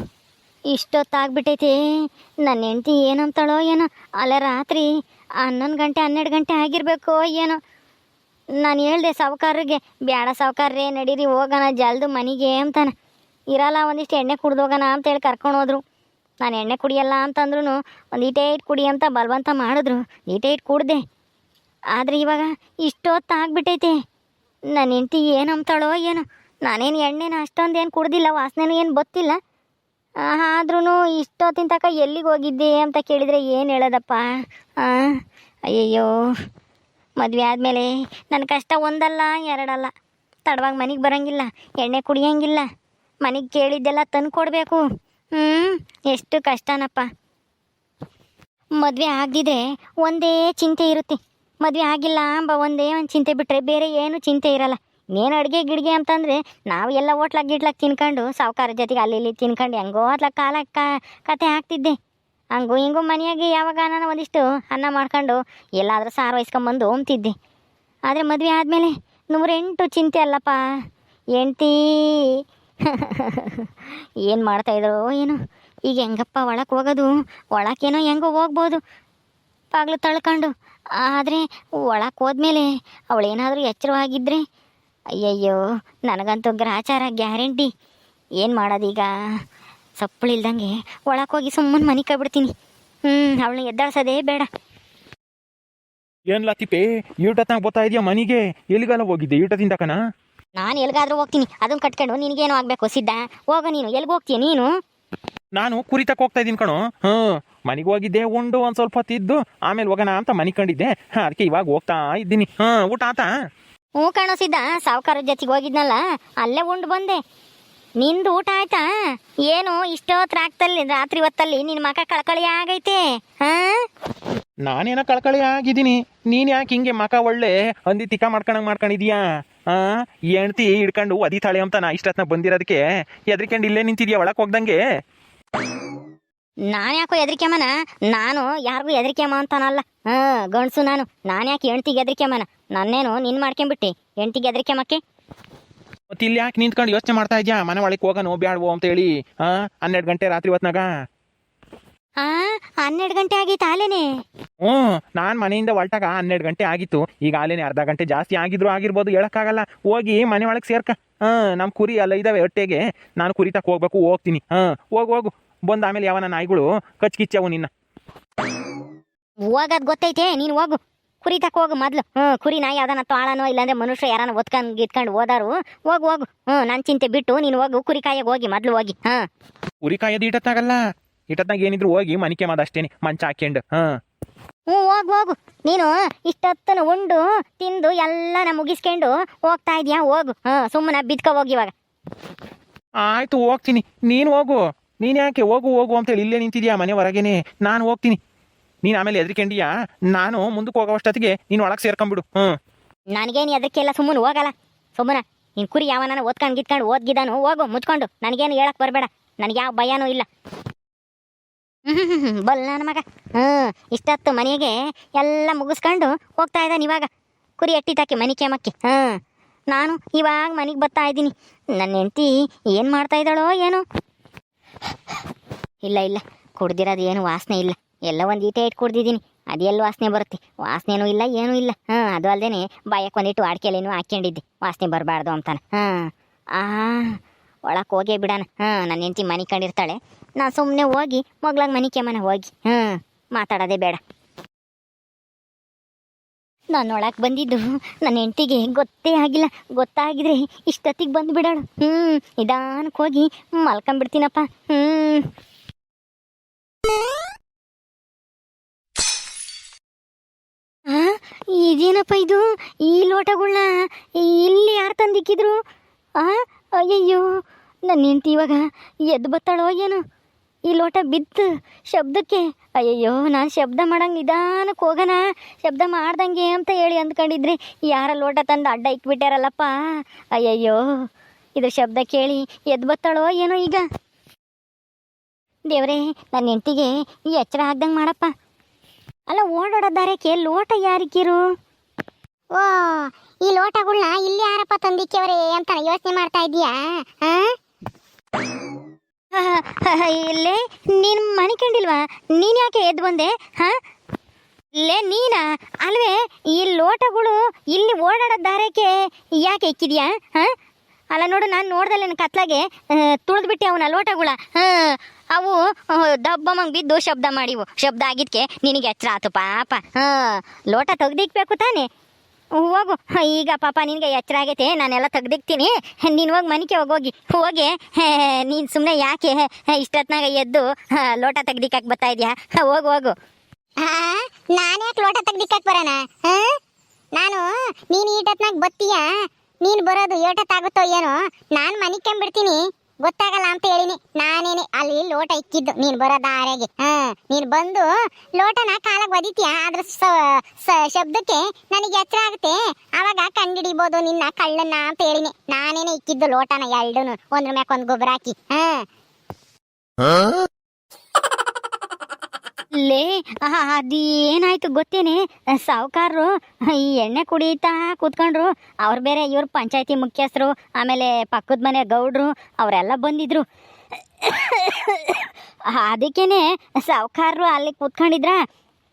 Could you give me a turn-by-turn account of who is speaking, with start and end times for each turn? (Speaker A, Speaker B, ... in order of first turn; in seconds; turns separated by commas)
Speaker A: 0.7-1.8, Speaker A: 2.4-4.9, Speaker A: 5.4-7.6, Speaker A: 8.6-12.9, Speaker A: 13.5-15.8, Speaker A: 16.4-21.0, Speaker A: 21.9-23.9, Speaker A: 24.7-29.4, Speaker A: 30.2-36.1, Speaker A: 37.2-39.9, Speaker A: 40.5-42.7, Speaker A: 43.2-44.8, Speaker A: 45.3-47.1, Speaker A: 48.8-62.0, Speaker A: 62.5-67.3, Speaker A: 68.1-70.8, Speaker A: 71.4-73.7, Speaker A: 74.3-78.8, Speaker A: 79.7-84.4, Speaker A: 85.2-87.7, Speaker A: 88.4-89.1, Speaker A: 90.0-92.5, Speaker A: 93.1-94.5, Speaker B: 96.3-100.0, Speaker A: 100.6-104.7, Speaker B: 105.6-113.3, Speaker A: 114.0-117.2, Speaker A: 118.0-118.9, Speaker A: 119.5-123.8, Speaker B: 124.6-129.2, Speaker B: 129.7-134.8, Speaker A: 136.7-145.0, Speaker B: 146.2-150.9, Speaker A: 152.2-154.1, Speaker B: 154.6-167.7, Speaker A: 169.5-179.2, Speaker B: 179.8-180.8, Speaker B: 181.3-183.9, Speaker A: 184.7-191.7, Speaker B: 193.1-198.2, Speaker B: 198.8-202.5, Speaker A: 203.2-210.3, Speaker A: 211.9-217.1, Speaker A: 217.6-219.2, Speaker A: 219.7-223.8, Speaker A: 225.8-244.0, Speaker A: 246.7-255.3, Speaker A: 260.9-265.6, Speaker A: 266.2-267.2, Speaker A: 267.9-270.0, Speaker A: 270.7-279.7, Speaker A: 280.4-281.1, Speaker A: 281.6-283.8, Speaker A: 285.7-288.3, Speaker A: 289.3-291.4, Speaker C: 292.5-297.5, Speaker A: 299.4-303.8, Speaker A: 304.8-310.5, Speaker A: 311.1-321.9, Speaker A: 322.6-333.1, Speaker C: 333.8-336.5, Speaker C: 337.2-339.0, Speaker C: 339.6-347.9, Speaker C: 348.4-358.8, Speaker A: 362.8-373.4, Speaker A: 374.2-378.4